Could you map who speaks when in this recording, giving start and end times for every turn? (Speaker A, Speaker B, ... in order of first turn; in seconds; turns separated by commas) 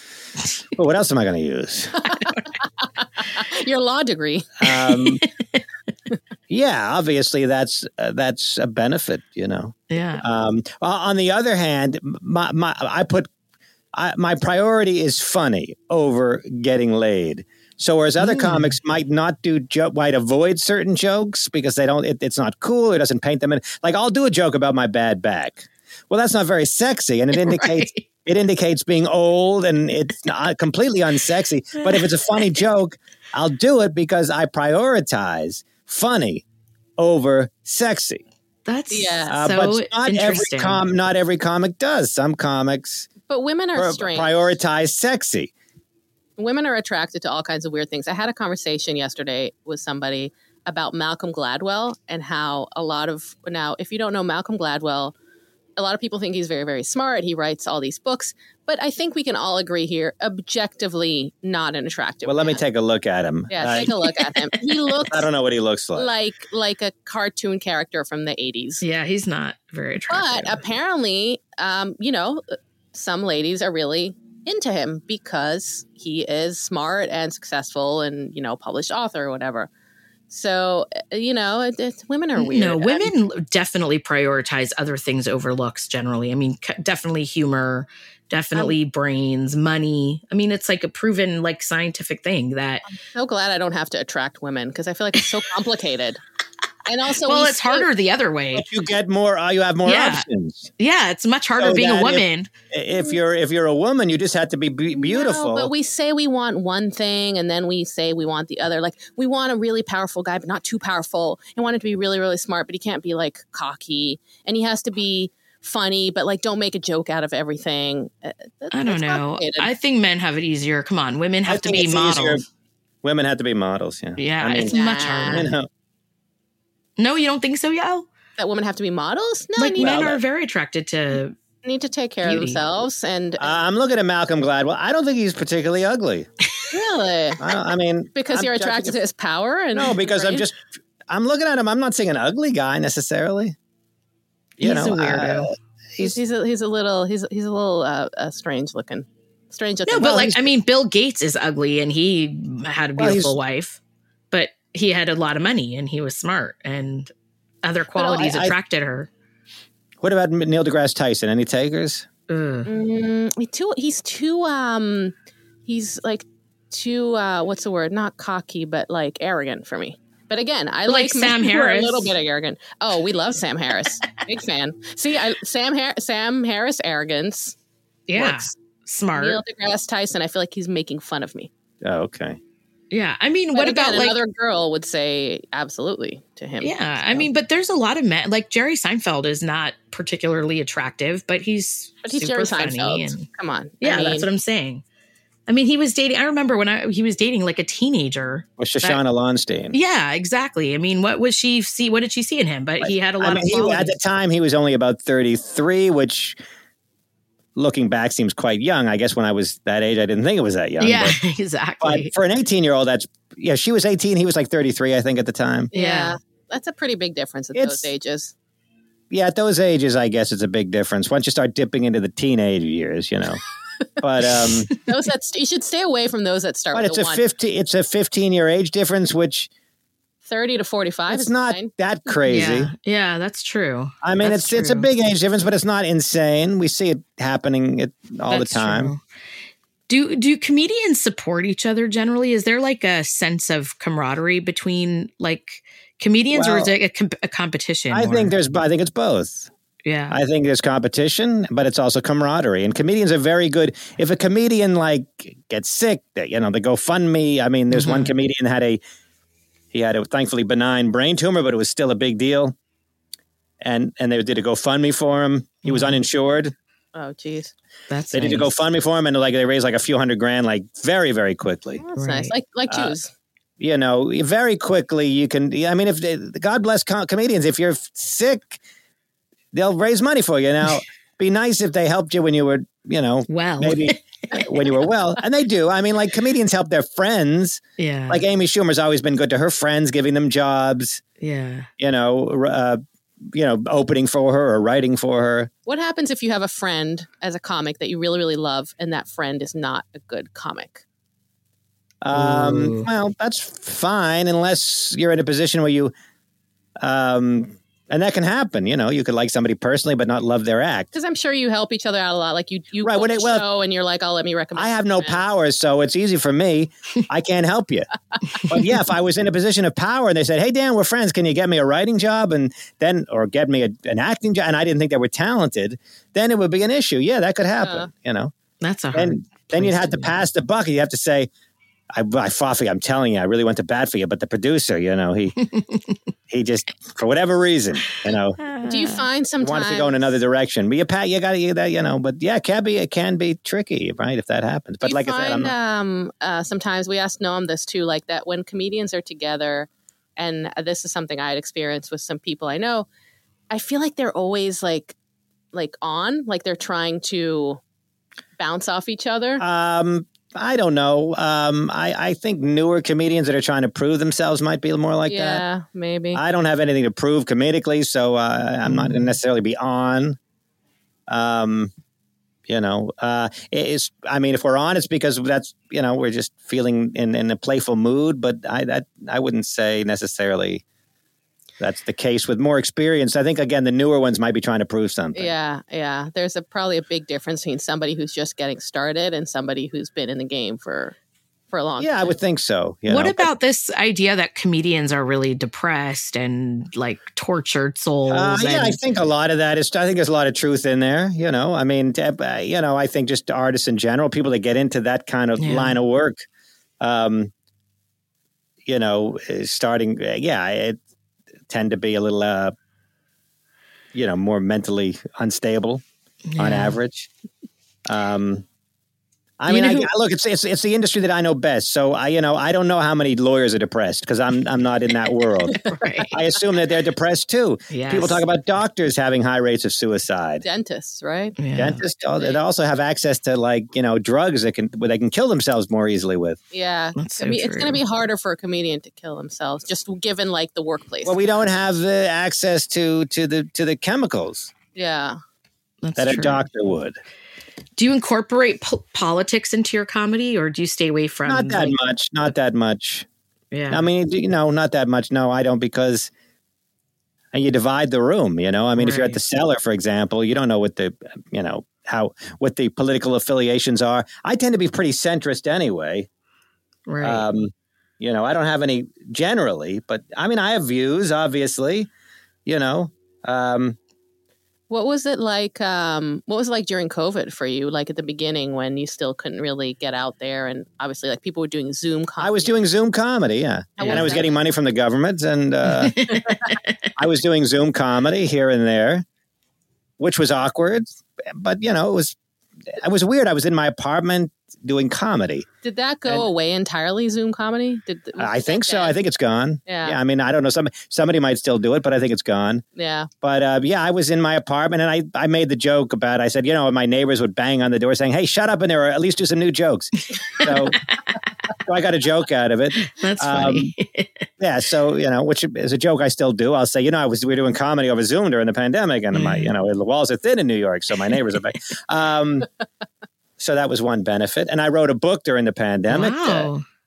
Speaker A: 0.7-2.0, Speaker B: 2.0-4.7, Speaker A: 4.6-5.2, Speaker C: 5.0-5.3, Speaker A: 6.5-13.3, Speaker C: 9.9-10.2, Speaker A: 13.9-36.4, Speaker C: 18.2-18.7, Speaker C: 27.3-28.0, Speaker A: 37.0-38.2, Speaker C: 38.6-40.8, Speaker B: 38.9-39.4, Speaker A: 39.3-43.1, Speaker B: 43.3-44.5, Speaker A: 43.8-45.5, Speaker B: 46.4-55.1, Speaker B: 55.8-62.6, Speaker A: 62.2-63.9, Speaker B: 63.5-65.3, Speaker A: 65.0-66.1, Speaker B: 65.9-68.8, Speaker C: 68.8-70.6, Speaker B: 70.1-79.7, Speaker B: 80.3-83.1, Speaker C: 82.3-92.9, Speaker B: 92.9-96.2, Speaker B: 96.8-97.9, Speaker C: 97.2-98.7, Speaker A: 98.5-100.7, Speaker C: 99.8-100.2, Speaker C: 100.8-102.5, Speaker A: 101.6-105.7, Speaker B: 104.9-119.7, Speaker C: 118.7-122.4, Speaker A: 121.5-122.4, Speaker A: 123.0-125.7, Speaker C: 124.2-125.5, Speaker B: 124.7-125.5, Speaker C: 127.0-128.1, Speaker B: 128.4-130.0, Speaker C: 129.6-131.3, Speaker A: 129.8-130.2, Speaker B: 131.6-133.5, Speaker C: 132.2-132.6, Speaker A: 133.4-136.3, Speaker B: 136.7-137.4, Speaker A: 137.4-139.0, Speaker B: 138.1-140.4, Speaker A: 139.7-140.6, Speaker A: 141.1-143.5, Speaker C: 144.6-145.5, Speaker A: 144.6-146.2, Speaker B: 146.0-150.3, Speaker C: 149.9-153.8, Speaker A: 150.0-150.4, Speaker A: 153.0-153.4, Speaker C: 154.3-157.1, Speaker C: 157.6-159.1, Speaker A: 158.0-158.5, Speaker A: 160.0-162.1, Speaker C: 162.3-162.7, Speaker B: 162.7-165.1, Speaker B: 165.7-177.6, Speaker C: 170.9-172.1, Speaker C: 178.1-179.4, Speaker B: 179.1-181.5, Speaker A: 181.8-182.4, Speaker C: 182.9-184.2, Speaker B: 183.5-187.2, Speaker C: 186.6-193.3, Speaker B: 192.0-194.3, Speaker C: 193.8-194.8, Speaker C: 195.5-199.0, Speaker A: 198.6-199.8, Speaker C: 199.7-203.9, Speaker A: 202.8-206.4, Speaker A: 207.6-211.2, Speaker C: 210.8-212.1, Speaker A: 211.8-215.7, Speaker C: 215.7-216.2, Speaker B: 215.7-218.3, Speaker A: 217.5-217.9, Speaker A: 219.1-223.4, Speaker A: 224.0-224.7, Speaker B: 224.8-227.2, Speaker A: 226.7-229.5, Speaker B: 230.2-231.7, Speaker A: 231.1-232.7, Speaker C: 232.2-234.9, Speaker A: 234.0-238.9, Speaker C: 238.3-239.0, Speaker C: 239.9-248.3, Speaker A: 246.3-246.7, Speaker A: 247.9-249.5, Speaker C: 249.8-250.2, Speaker A: 250.1-258.8, Speaker C: 257.7-258.1, Speaker A: 259.7-262.6, Speaker A: 263.6-266.5, Speaker C: 265.6-266.0, Speaker B: 266.9-267.5, Speaker C: 267.9-268.5, Speaker A: 268.1-271.8, Speaker B: 271.8-273.1, Speaker C: 271.9-272.3, Speaker A: 272.7-272.9, Speaker A: 273.6-278.6, Speaker A: 279.5-291.0, Speaker C: 283.3-284.7, Speaker C: 287.8-288.2, Speaker C: 291.2-291.7, Speaker A: 291.8-292.8, Speaker A: 293.3-295.5, Speaker B: 295.7-300.8, Speaker A: 302.0-305.9, Speaker C: 302.1-302.9, Speaker A: 306.8-310.9, Speaker B: 310.9-315.2, Speaker A: 312.8-313.4, Speaker A: 314.6-328.3, Speaker B: 327.6-327.9, Speaker C: 328.6-330.1, Speaker A: 328.9-331.3, Speaker A: 331.9-335.4, Speaker C: 335.5-335.9, Speaker A: 336.3-338.4, Speaker C: 338.4-339.0, Speaker B: 338.6-340.1, Speaker A: 339.4-345.5, Speaker B: 344.8-352.9, Speaker B: 353.5-354.9, Speaker B: 355.5-357.6, Speaker B: 358.4-359.4, Speaker A: 359.4-365.4, Speaker B: 365.1-366.2, Speaker A: 366.1-370.2, Speaker C: 368.6-369.1, Speaker A: 371.1-371.7, Speaker A: 372.5-380.6, Speaker A: 381.6-385.3, Speaker B: 385.1-390.9, Speaker B: 391.5-392.1, Speaker A: 391.8-393.3, Speaker C: 392.9-398.8, Speaker A: 398.1-406.2, Speaker C: 405.4-405.8, Speaker A: 406.8-407.3, Speaker A: 408.6-410.8, Speaker A: 411.5-412.5, Speaker A: 413.9-415.8, Speaker C: 416.3-416.8, Speaker A: 416.4-417.1, Speaker A: 417.9-418.4, Speaker A: 419.4-430.4, Speaker C: 419.5-419.9, Speaker C: 425.6-426.1, Speaker C: 427.7-428.2, Speaker B: 430.4-431.3, Speaker C: 431.4-431.8, Speaker A: 431.6-436.4, Speaker B: 436.5-441.2, Speaker C: 436.9-437.8, Speaker A: 441.0-444.5, Speaker B: 444.7-445.2, Speaker C: 445.8-446.4, Speaker A: 445.9-447.0, Speaker C: 447.8-451.7, Speaker A: 451.2-453.1, Speaker C: 453.5-453.9, Speaker A: 453.7-456.1, Speaker A: 457.3-466.1, Speaker C: 458.8-459.2, Speaker C: 466.9-467.2, Speaker A: 467.0-471.9, Speaker A: 472.4-473.8, Speaker B: 474.7-482.5, Speaker A: 482.2-486.2, Speaker B: 483.8-484.3, Speaker C: 483.8-484.1, Speaker C: 485.7-486.7, Speaker A: 486.9-489.0, Speaker A: 490.0-492.1, Speaker A: 492.7-495.5, Speaker B: 495.6-499.0, Speaker A: 498.2-502.6, Speaker B: 499.7-500.0, Speaker B: 502.8-503.1, Speaker A: 503.2-510.8, Speaker C: 510.4-510.7, Speaker A: 511.6-513.7, Speaker C: 512.8-514.3, Speaker A: 514.4-522.5, Speaker C: 519.1-519.5, Speaker A: 523.4-526.5, Speaker C: 525.9-526.6